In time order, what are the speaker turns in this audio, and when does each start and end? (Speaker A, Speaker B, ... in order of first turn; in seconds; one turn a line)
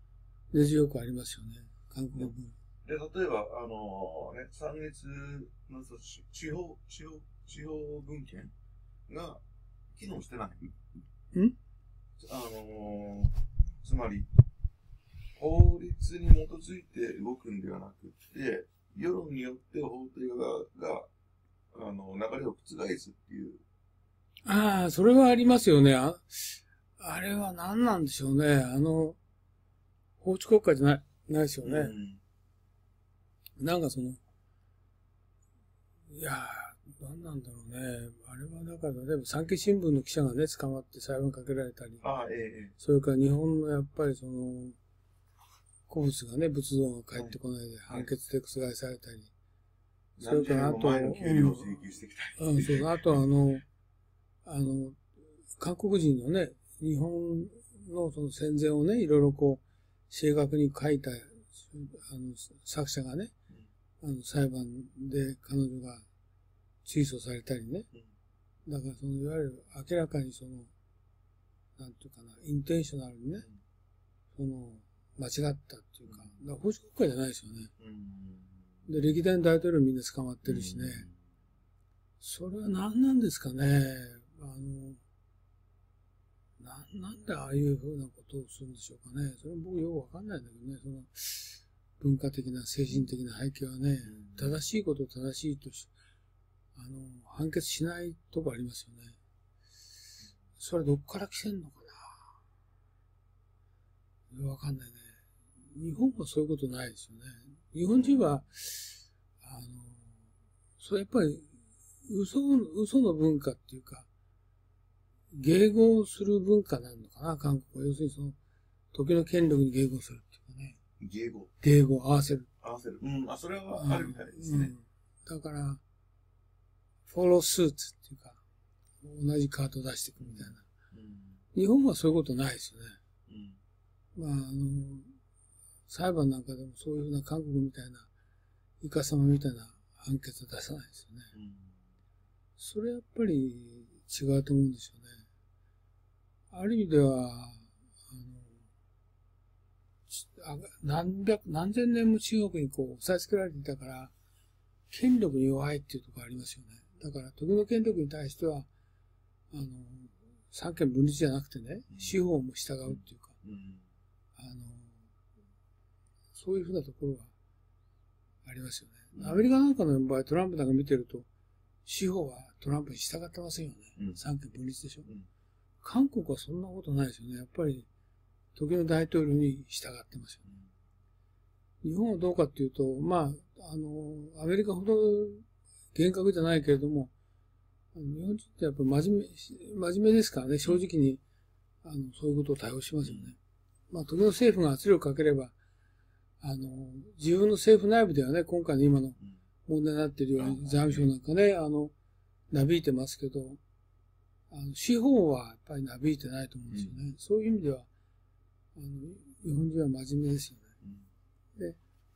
Speaker A: 0.5-2.5
Speaker B: 2.8-8.5
Speaker B: 9.1-9.4
Speaker B: 9.9-10.7
Speaker B: 12.2-14.3
Speaker B: 15.3-21.1
Speaker B: 21.7-23.6
Speaker A: 24.4-29.2
Speaker A: 30.2-31.9
Speaker B: 31.6-32.2
Speaker A: 33.6-34.2
Speaker A: 36.1-42.0
Speaker B: 42.0-42.7
Speaker A: 42.8-44.8
Speaker A: 45.9-49.3
Speaker B: 50.2-53.0
Speaker A: 50.2-51.8
Speaker A: 52.4-53.6
Speaker A: 54.4-55.0
Speaker A: 55.6-63.3
Speaker A: 64.0-66.0
Speaker A: 66.8-67.9
Speaker A: 68.7-70.7
Speaker A: 71.8-73.5
Speaker A: 74.3-77.7
Speaker B: 77.8-79.1
Speaker A: 78.9-81.1
Speaker B: 80.4-81.2
Speaker A: 82.2-85.0
Speaker A: 86.6-95.9
Speaker B: 94.0-94.6
Speaker A: 96.7-99.2
Speaker A: 100.6-102.2
Speaker A: 104.3-105.1
Speaker A: 105.6-110.2
Speaker B: 107.9-108.2
Speaker A: 110.8-111.5
Speaker A: 112.0-114.1
Speaker A: 115.3-118.4
Speaker A: 118.9-120.8
Speaker B: 121.0-121.5
Speaker A: 121.6-122.5
Speaker B: 122.6-124.7
Speaker A: 123.7-125.8
Speaker A: 127.1-128.4
Speaker A: 129.0-130.6
Speaker B: 130.2-131.4
Speaker A: 131.5-133.0
Speaker B: 133.3-133.6
Speaker A: 134.1-135.1
Speaker A: 135.9-138.1
Speaker A: 138.8-141.3
Speaker B: 141.3-141.8
Speaker A: 142.6-145.2
Speaker A: 146.5-148.6
Speaker A: 150.1-154.1
Speaker A: 154.9-158.7
Speaker A: 159.5-163.3
Speaker B: 161.9-162.2
Speaker B: 162.8-163.8
Speaker A: 164.3-165.0
Speaker A: 166.3-167.3
Speaker A: 168.4-171.3
Speaker B: 169.1-169.4
Speaker A: 171.8-175.1
Speaker A: 175.8-177.9
Speaker A: 178.5-180.4
Speaker A: 181.8-187.1
Speaker A: 187.9-191.2
Speaker A: 191.8-193.4
Speaker B: 193.0-193.3
Speaker A: 193.9-195.5
Speaker A: 196.4-201.9
Speaker B: 200.4-201.1
Speaker A: 202.5-203.6
Speaker A: 204.5-207.9
Speaker B: 206.7-206.9
Speaker A: 208.8-210.7